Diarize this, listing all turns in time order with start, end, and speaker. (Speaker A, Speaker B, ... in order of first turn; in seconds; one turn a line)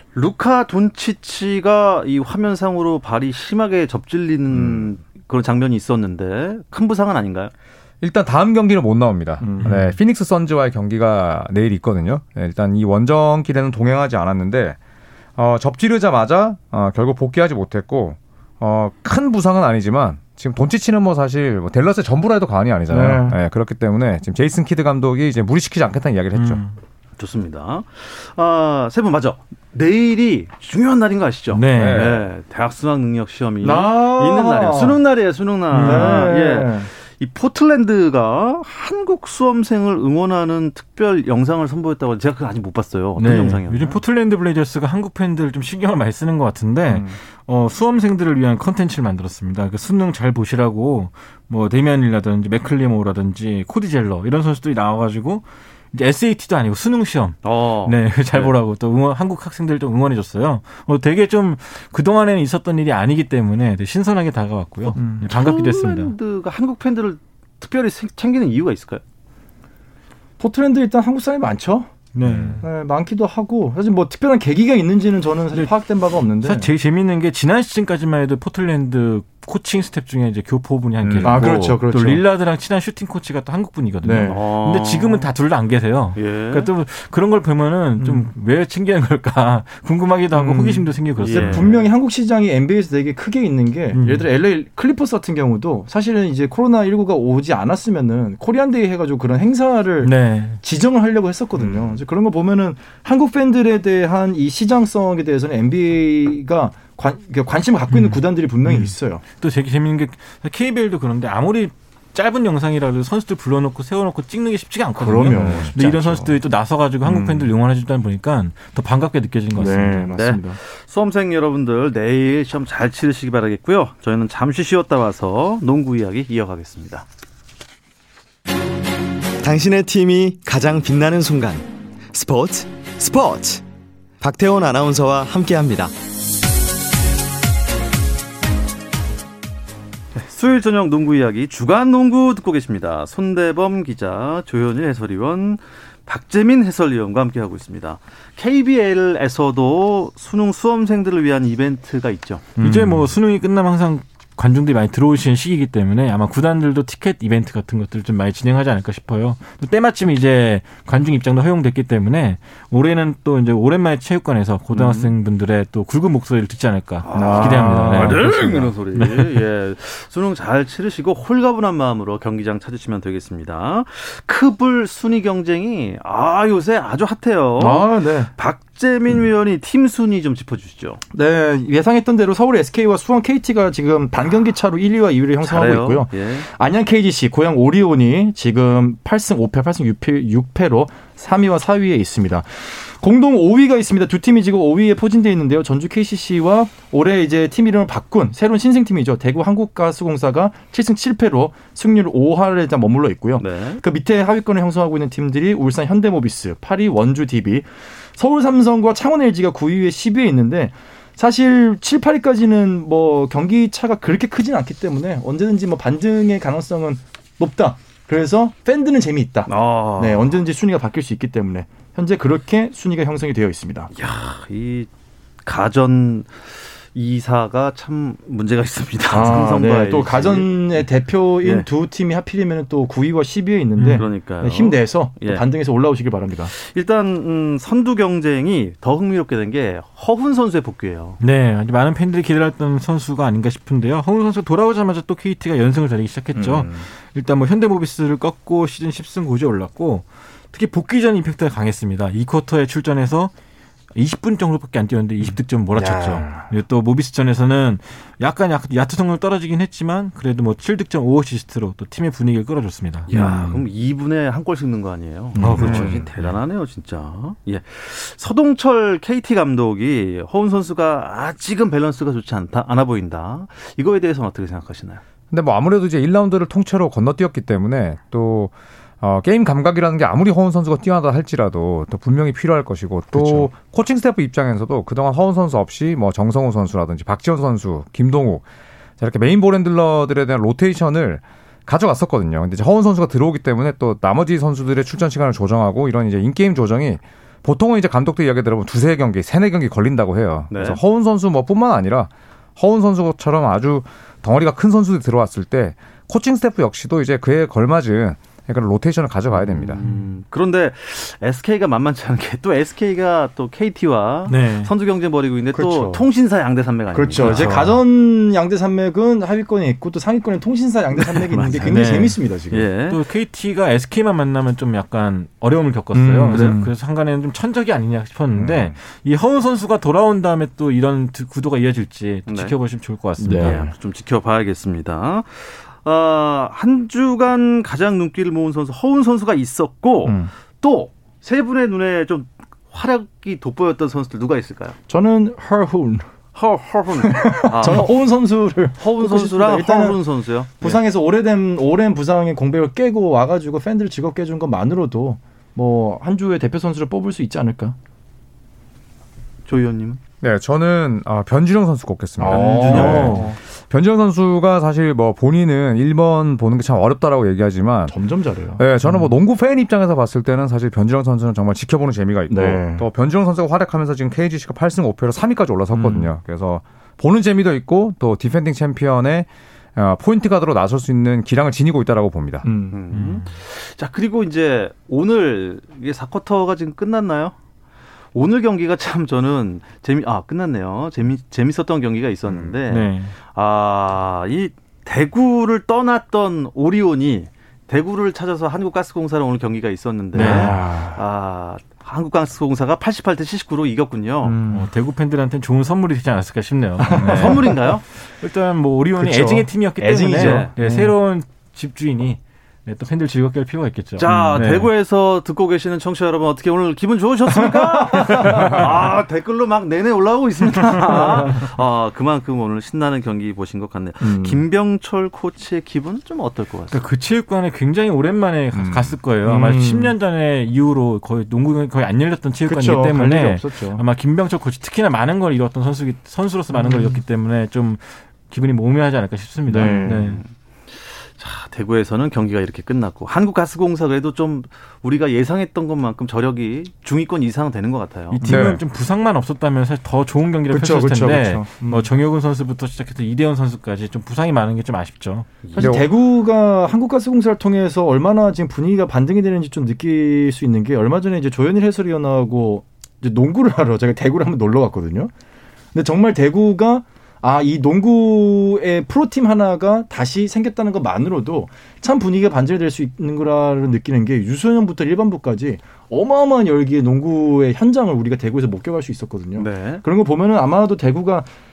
Speaker A: 0.1-7.5
Speaker B: 8.0-14.8
Speaker C: 9.4-9.8
Speaker D: 9.6-9.9
Speaker B: 15.4-26.6
Speaker C: 22.9-23.4
Speaker D: 26.3-26.8
Speaker A: 27.2-44.0
Speaker D: 31.5-32.1
Speaker B: 31.7-32.3
Speaker C: 33.6-35.0
Speaker D: 35.7-36.2
Speaker C: 35.7-36.9
Speaker D: 43.1-66.1
Speaker C: 46.9-47.2
Speaker A: 57.4-58.5
Speaker C: 64.9-65.3
Speaker A: 65.2-69.0
Speaker C: 70.4-71.9
Speaker D: 72.1-72.7
Speaker B: 72.2-72.6
Speaker C: 72.6-76.7
Speaker D: 76.4-91.7
Speaker B: 81.0-81.5
Speaker C: 81.2-82.2
Speaker C: 84.0-84.4
Speaker A: 84.2-85.3
Speaker A: 86.2-86.7
Speaker C: 88.0-88.3
Speaker C: 90.3-109.2
Speaker A: 91.2-91.9
Speaker D: 93.9-94.3
Speaker D: 100.0-100.6
Speaker A: 101.6-101.9
Speaker D: 107.9-120.1
Speaker C: 115.0-116.4
Speaker B: 115.3-115.7
Speaker C: 117.0-117.5
Speaker C: 119.5-120.6
Speaker A: 120.2-127.0
Speaker E: 129.4-133.6
Speaker E: 134.2-135.9
Speaker A: 140.2-152.5
Speaker C: 152.6-153.1
Speaker D: 152.6-168.3
Speaker A: 164.7-165.1
Speaker A: 167.0-181.0
Speaker C: 167.1-168.5
Speaker D: 168.9-169.3
Speaker C: 177.6-178.3
Speaker C: 181.1-223.9
Speaker A: 185.4-186.5
Speaker A: 203.4-203.8
Speaker A: 219.5-220.4
Speaker A: 223.9-224.9
Speaker A: 225.4-230.8
Speaker C: 229.1-236.5
Speaker A: 231.4-231.7
Speaker D: 233.8-234.0
Speaker A: 233.9-235.4
Speaker A: 236.5-241.2
Speaker D: 241.2-253.3
Speaker C: 246.3-246.7
Speaker D: 253.9-263.1
Speaker C: 255.7-256.5
Speaker A: 263.1-275.0
Speaker C: 263.1-263.6
Speaker C: 265.4-266.1
Speaker D: 265.4-266.0
Speaker B: 265.6-265.9
Speaker B: 275.3-288.4
Speaker C: 283.1-283.5
Speaker B: 289.0-309.8
Speaker A: 300.5-300.8
Speaker A: 309.6-317.6
Speaker D: 314.3-314.7
Speaker C: 315.5-316.0
Speaker C: 316.9-322.7
Speaker D: 317.2-317.8
Speaker A: 320.9-323.0
Speaker D: 321.5-322.2
Speaker D: 322.9-333.6
Speaker C: 325.9-326.7
Speaker A: 326.3-326.6
Speaker B: 328.4-328.7
Speaker A: 332.3-332.5
Speaker C: 333.2-333.7
Speaker A: 333.3-344.8
Speaker C: 344.9-346.1
Speaker A: 346.3-348.0
Speaker C: 347.0-350.0
Speaker A: 348.8-350.8
Speaker C: 350.6-357.8
Speaker A: 359.4-360.0
Speaker B: 360.2-368.0
Speaker C: 362.2-363.4
Speaker A: 362.2-363.3
Speaker D: 362.5-363.3
Speaker C: 367.9-369.1
Speaker B: 368.6-382.4
Speaker C: 372.3-372.9
Speaker C: 375.7-376.1
Speaker C: 382.4-382.8
Speaker A: 382.7-387.3
Speaker D: 382.9-383.3
Speaker A: 388.1-404.4
Speaker D: 392.7-393.1
Speaker D: 400.1-400.6
Speaker C: 400.1-401.0
Speaker C: 404.2-404.7
Speaker D: 404.5-414.7
Speaker C: 406.8-407.7
Speaker A: 407.0-407.8
Speaker C: 409.0-410.9
Speaker A: 410.1-410.5
Speaker A: 414.0-426.8
Speaker C: 414.1-414.4
Speaker C: 417.4-418.6
Speaker C: 420.6-421.4
Speaker C: 424.0-424.4
Speaker D: 426.7-440.2
Speaker B: 428.5-429.0
Speaker C: 429.2-429.9
Speaker C: 432.4-433.8
Speaker C: 436.5-437.0
Speaker C: 439.5-440.2
Speaker A: 439.7-440.3
Speaker A: 441.2-448.2
Speaker D: 448.1-455.3
Speaker C: 448.2-448.5
Speaker B: 448.2-448.6
Speaker C: 450.5-451.9
Speaker A: 455.4-455.9
Speaker C: 455.5-465.1
Speaker B: 455.6-455.9
Speaker C: 465.7-481.3
Speaker A: 479.3-479.8